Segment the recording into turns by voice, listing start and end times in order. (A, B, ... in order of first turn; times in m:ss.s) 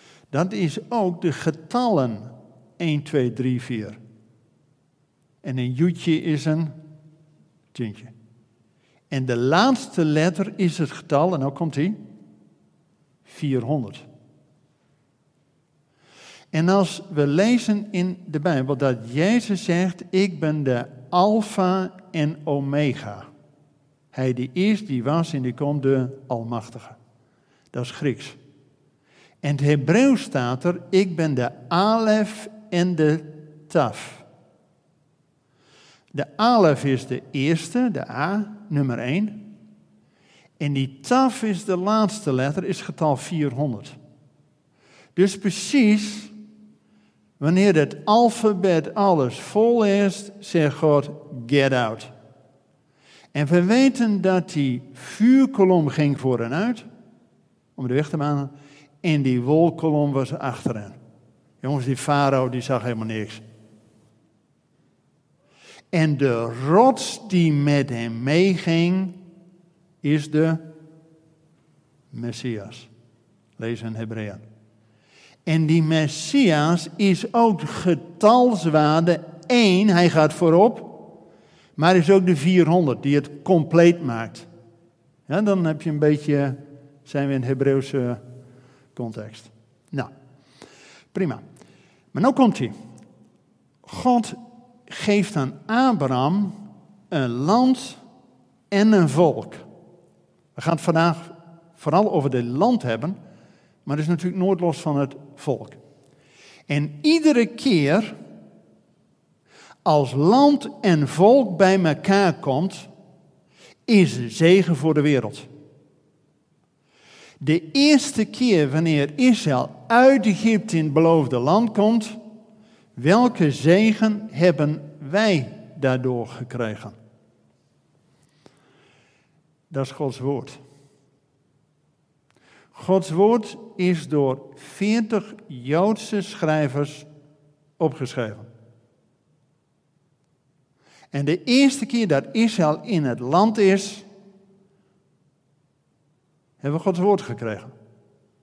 0:00.3-0:04.0 A
0:05.4-0:06.8 A
0:07.7-0:08.1 A
0:09.1-0:12.0 A
0:13.3-0:14.1 A
0:16.5-0:23.3 A
0:24.1-0:27.0 A
0:27.7-0:28.4 A
0:29.4-0:34.2 A
0:36.1-0:39.5 A
0:40.6-0:44.0 A
0:45.2-0:46.3 A
0:47.4-0:52.1 A
0:53.3-0:56.9 A
0:57.8-1:01.0 A
1:01.6-1:03.4 A
1:05.9-1:09.2 A
1:10.0-1:10.7 A
1:12.1-1:12.9 A
1:13.6-1:14.4 A
1:15.5-1:21.0 A
1:21.8-1:24.5 A
1:25.3-1:28.2 A
1:29.0-1:30.1 A
1:31.1-1:31.4 A
1:32.1-1:32.8 A
1:33.8-1:36.6 A
1:37.1-1:38.0 A
1:38.7-1:39.6 A
1:40.6-1:43.2 A
1:43.8-1:45.8 A
1:46.7-1:48.2 A
1:49.8-1:52.9 A
1:53.9-1:55.5 A
1:57.4-2:02.2 A
2:03.0-2:07.0 A
2:09.7-2:10.6 A
2:12.7-2:17.1 A
2:17.8-2:18.5 A
2:21.1-2:24.1 A
2:26.6-2:27.7 A